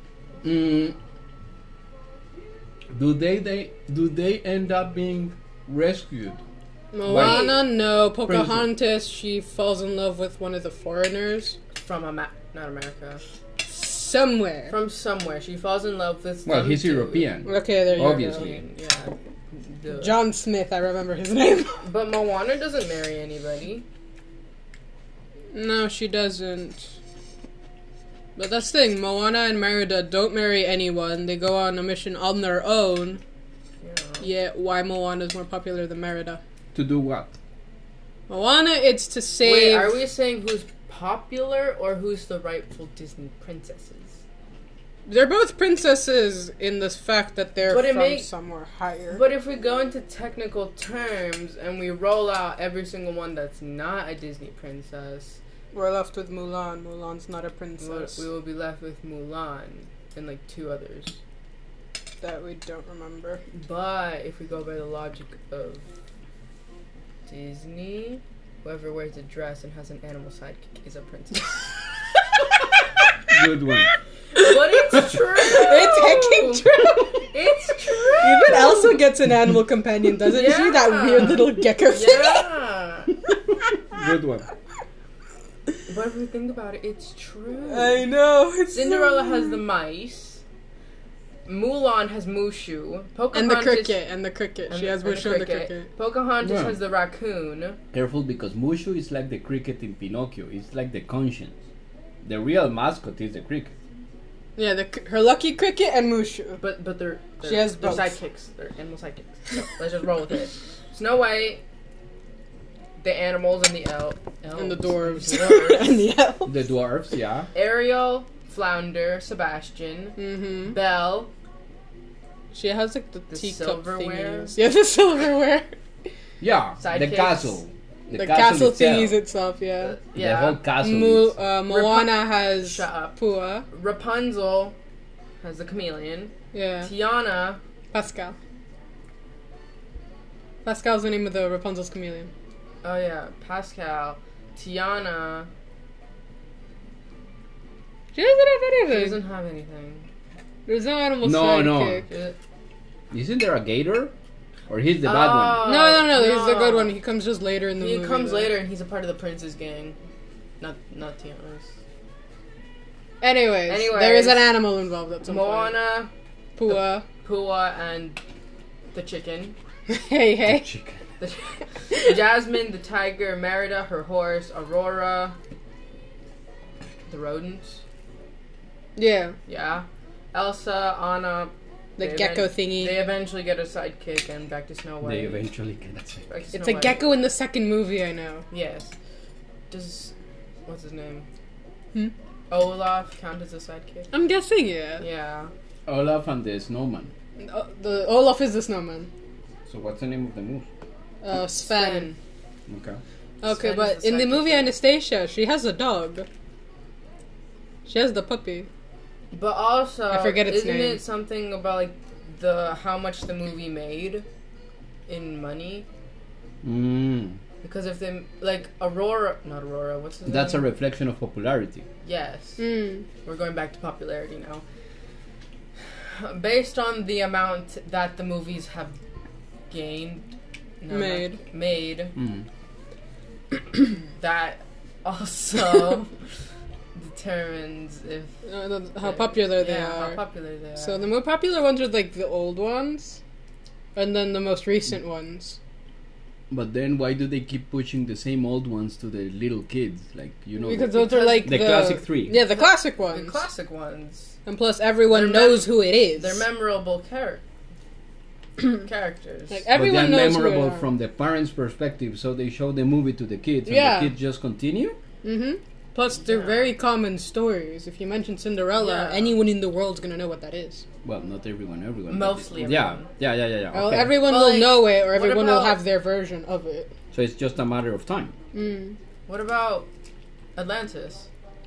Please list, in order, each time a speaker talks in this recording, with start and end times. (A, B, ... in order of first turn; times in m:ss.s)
0:00.4-0:01.0 A
0:02.9-0:06.4 A
0:06.9-0:11.6 B
0:07.0-0:07.6 C
0:07.0-0:07.6 A
0:08.2-0:08.7 A
0:11.8-0:13.2 C
0:13.6-0:14.8 B
0:14.7-0:20.3 C
0:16.4-0:18.6 A
0:17.4-0:18.4 B
0:19.9-0:21.8 B
0:21.8-0:23.8 C
0:25.5-0:26.9 B
0:28.4-0:33.2 B
0:33.8-0:34.3 C
0:34.2-0:36.4 B
0:36.7-0:37.4 A
0:38.3-0:40.0 B
0:39.4-0:44.2 C
0:45.1-0:49.2 B
0:47.6-0:48.3 C
0:49.1-0:55.4 C
0:55.7-0:58.2 B
0:57.8-1:01.2 C
1:02.2-1:03.4 B
1:03.5-1:05.8 C
1:07.2-1:11.7 C
1:13.3-1:13.9 A
1:14.3-1:19.0 C
1:15.4-1:17.3 B
1:18.2-1:22.5 B
1:20.2-1:23.1 C
1:23.9-1:24.4 A
1:25.9-1:28.1 C
1:27.7-1:29.6 B
1:28.7-1:30.4 C
1:31.4-1:34.0 C
1:33.3-1:35.9 B
1:34.7-1:37.8 C
1:36.4-1:36.8 A
1:37.9-1:41.6 A
1:42.2-1:43.7 A
1:44.6-1:46.6 B
1:46.6-1:51.6 C
1:47.4-1:48.1 B
1:53.0-1:56.0 C
1:54.6-1:56.5 B
1:56.5-1:57.5 A
1:57.5-2:01.3 C
2:00.2-2:00.8 B
2:02.5-2:05.7 B
2:03.3-2:04.5 C
2:06.4-2:09.2 A
2:06.8-2:07.6 C
2:08.1-2:10.0 B
2:09.8-2:10.6 C
2:10.1-2:11.3 A
2:10.8-2:13.6 B
2:11.7-2:13.2 C
2:13.7-2:14.8 C
2:15.4-2:17.6 C
2:16.5-2:16.9 B
2:17.9-2:18.4 B
2:20.6-2:22.3 B
2:22.8-2:25.5 C
2:28.1-2:29.2 B
2:28.9-2:30.1 C
2:30.7-2:32.0 B
2:31.2-2:32.0 A
2:32.1-2:32.4 C
2:33.1-2:34.1 A
2:34.7-2:35.7 A
2:35.0-2:36.9 C
2:35.6-2:38.5 B
2:37.8-2:40.0 C
2:40.6-2:41.7 C
2:43.2-2:45.8 B
2:43.7-2:44.6 C
2:45.2-2:46.1 C
2:46.6-2:47.0 B
2:46.6-2:48.2 C
2:48.9-2:49.6 C
2:49.9-2:50.7 B
2:50.4-2:51.0 A
2:51.2-2:55.4 C
2:57.1-2:57.8 C
2:59.0-2:59.4 B
2:59.5-3:05.4 C
3:02.0-3:03.0 B
3:05.0-3:06.2 A
3:06.3-3:07.1 C
3:06.5-3:08.4 B
3:08.5-3:08.9 C
3:09.7-3:10.1 C
3:10.6-3:11.3 C
3:12.5-3:14.1 C
3:14.1-3:15.0 B
3:15.0-3:15.5 C
3:15.9-3:17.1 A
3:17.4-3:19.1 B
3:19.7-3:20.6 A
3:21.2-3:22.2 B
3:21.6-3:22.1 C
3:22.7-3:23.0 A
3:23.4-3:26.3 B
3:23.4-3:24.7 C
3:27.8-3:28.7 B
3:29.3-3:34.2 C
3:30.1-3:31.0 B
3:35.1-3:35.8 C
3:36.6-3:37.4 A
3:37.6-3:40.7 C
3:40.2-3:41.8 A
3:42.0-3:42.6 C
3:42.6-3:43.0 B
3:43.2-3:44.6 C
3:46.1-3:49.0 C
3:49.7-3:50.3 C
3:50.8-3:52.1 C
3:50.9-3:51.4 B
3:52.2-3:52.4 A
3:53.9-3:56.1 C
3:56.9-3:58.4 C
3:58.4-4:00.2 B
3:59.0-4:01.0 C
4:00.8-4:03.2 B
4:03.9-4:05.6 B
4:06.5-4:12.4 A
4:10.6-4:13.4 B
4:10.9-4:14.4 C
4:14.4-4:16.4 B
4:15.1-4:17.4 C
4:18.6-4:19.6 C
4:19.5-4:20.9 B
4:19.7-4:25.0 A
4:23.6-4:24.1 B
4:25.2-4:30.8 B
4:26.2-4:26.7 C
4:28.7-4:29.4 C
4:31.0-4:34.2 A
4:32.1-4:33.1 C
4:33.7-4:36.9 B
4:34.1-4:35.8 C
4:37.1-4:38.3 A
4:38.5-4:39.0 B
4:39.3-4:39.9 C
4:40.6-4:41.3 C